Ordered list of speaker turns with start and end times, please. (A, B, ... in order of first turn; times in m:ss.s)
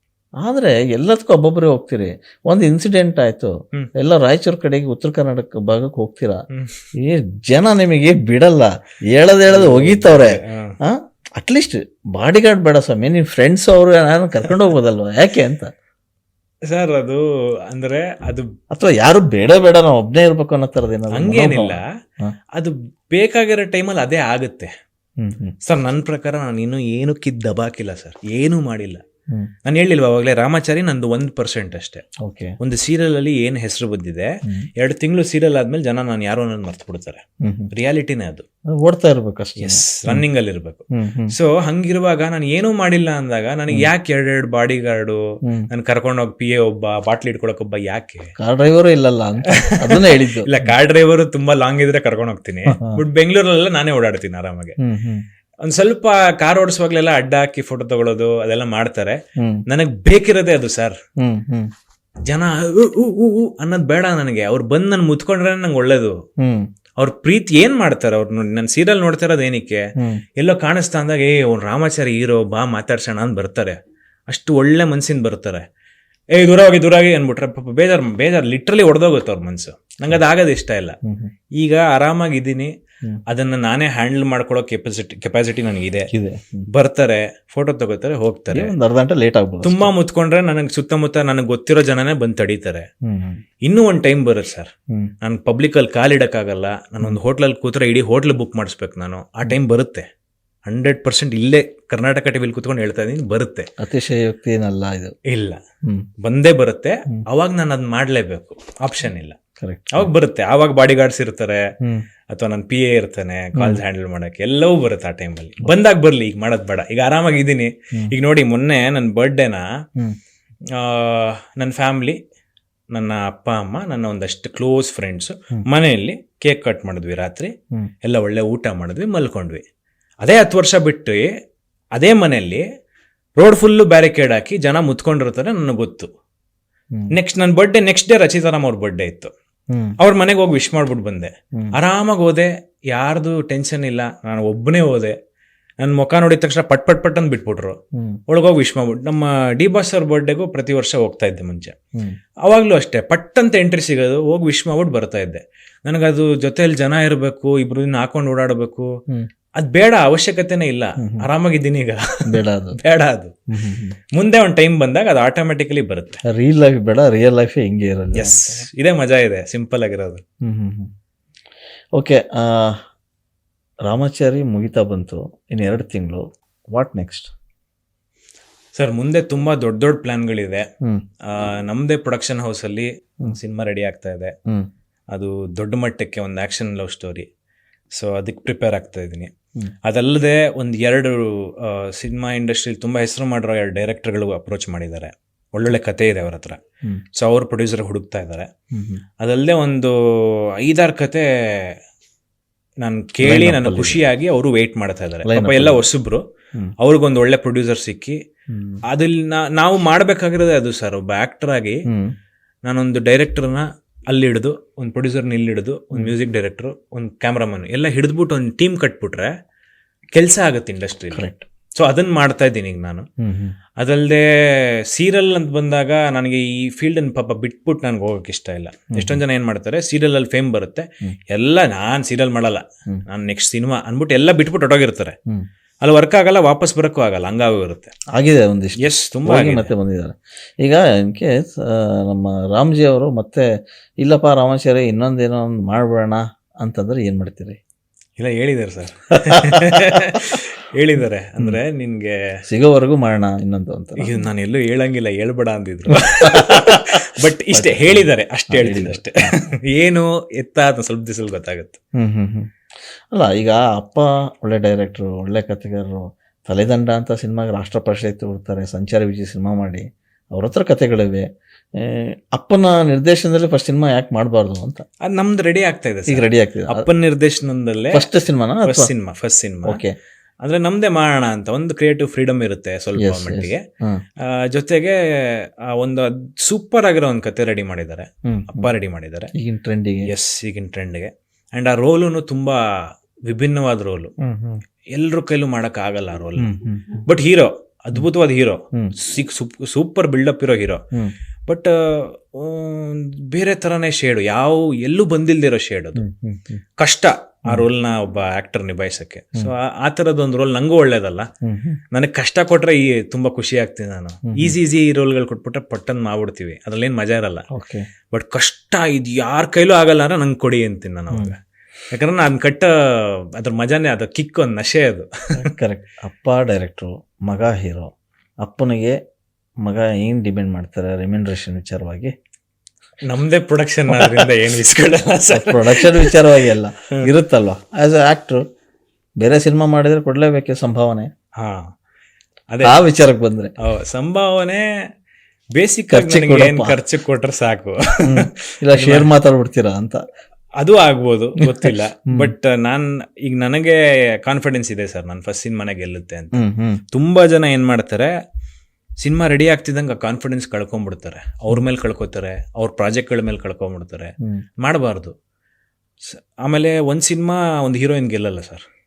0:00.4-0:06.4 A
0:06.5-0:06.8 B
0:07.0-0:15.7 A
0:09.5-0:10.8 B
0:16.7-0:18.5 B
0:18.7-0:22.3 A
0:21.1-0:21.8 B
0:22.6-0:24.7 B
0:25.2-0:25.6 A
0:25.6-0:29.0 B
0:29.6-0:32.0 B
0:32.2-0:32.6 A
0:32.6-0:38.5 B
0:37.4-0:37.7 A
0:38.8-0:40.2 A
0:39.6-0:45.2 B
0:40.9-0:41.3 A
0:45.7-0:48.3 B
0:48.4-0:50.5 A
0:49.7-0:54.8 B
0:52.7-0:53.0 A
0:54.8-0:55.2 A
0:55.6-1:01.0 B
1:01.2-1:01.7 A
1:02.3-1:06.2 B
1:06.4-1:06.7 A
1:07.0-1:09.8 B
1:10.4-1:15.6 B
1:16.4-1:21.0 B
1:21.1-1:21.3 A
1:21.6-1:22.7 B
1:23.3-1:26.1 B
1:26.1-1:26.7 A
1:26.7-1:28.7 B
1:28.5-1:29.9 A
1:29.6-1:32.9 B
1:33.1-1:33.4 A
1:33.6-1:34.7 B
1:35.2-1:40.1 B
1:40.7-1:43.7 B
1:43.8-1:45.1 A
1:45.3-1:45.6 B
1:46.2-1:49.4 B
1:49.6-1:50.1 A
1:49.9-1:51.6 B
1:52.3-1:59.6 B
1:53.6-1:53.8 A
2:00.7-2:02.2 B
2:02.9-2:07.5 B
2:08.0-2:09.6 B
2:10.2-2:11.3 B
2:12.0-2:12.6 B
2:13.4-2:16.1 B
2:17.1-2:19.3 B
2:20.0-2:25.2 B
2:25.8-2:31.8 B
2:32.4-2:38.9 B
2:39.6-2:43.3 B
2:42.3-2:42.8 A
2:43.5-2:44.0 A
2:44.2-2:46.2 B
2:46.3-2:48.6 A
2:48.2-2:50.2 B
2:50.4-2:50.9 A
2:52.0-2:52.8 A
2:53.9-2:57.3 A
2:58.8-3:00.7 B
3:01.3-3:04.3 B
3:05.1-3:07.3 B
3:08.0-3:09.3 B
3:09.8-3:16.6 B
3:17.2-3:18.5 B
3:18.7-3:19.0 A
3:19.2-3:21.8 B
3:22.8-3:26.2 B
3:23.2-3:24.0 A
3:25.2-3:25.9 A
3:26.8-3:28.2 B
3:28.5-3:28.8 A
3:28.9-3:31.8 B
3:31.9-3:32.1 A
3:32.6-3:39.3 B
3:40.2-3:41.3 B
3:41.1-3:41.5 A
3:41.8-3:43.1 B
3:43.2-3:43.6 A
3:43.8-3:55.2 B
3:48.9-3:49.2 A
3:55.8-3:57.9 B
3:58.2-4:03.4 A
3:58.8-3:59.7 B
4:04.0-4:07.6 A
4:08.2-4:12.1 B
4:12.5-4:14.2 A
4:14.0-4:21.8 B
4:16.3-4:19.4 A
4:22.0-4:22.5 A
4:23.1-4:31.3 A
4:31.8-4:34.8 A
4:35.0-4:38.1 B
4:36.1-4:36.9 A
4:37.9-4:38.9 A
4:38.6-4:39.8 B
4:39.7-4:39.9 A
4:40.4-4:43.6 B
4:43.0-4:44.0 A
4:44.2-4:49.3 B
4:48.3-4:48.7 A
4:49.4-4:50.1 A
4:50.1-4:52.6 B
4:53.3-4:54.1 B
4:54.2-4:54.6 A
4:54.9-4:56.5 B
4:56.4-4:57.0 A
4:57.1-5:00.8 B
5:01.5-5:06.0 B
5:06.0-5:06.6 A
5:06.8-5:11.3 B
5:11.4-5:11.8 A
5:11.9-5:17.4 B
5:14.3-5:14.6 A
5:17.5-5:17.9 A
5:18.1-5:21.4 B
5:21.9-5:25.5 B
5:25.4-5:27.9 A
5:28.4-5:29.0 A
5:29.6-5:32.1 A
5:33.0-5:36.2 B
5:34.0-5:34.3 A
5:35.3-5:38.4 A
5:39.2-5:41.1 A
5:41.4-5:41.7 B
5:42.5-5:42.8 B
5:42.6-5:43.5 A
5:43.6-5:44.6 B
5:45.6-5:49.1 B
5:45.9-5:46.8 A
5:48.1-5:50.0 A
5:50.6-5:56.4 B
5:51.4-5:52.3 A
5:56.3-5:56.8 A
5:56.9-5:58.1 B
5:59.0-6:05.1 B
6:06.0-6:08.6 B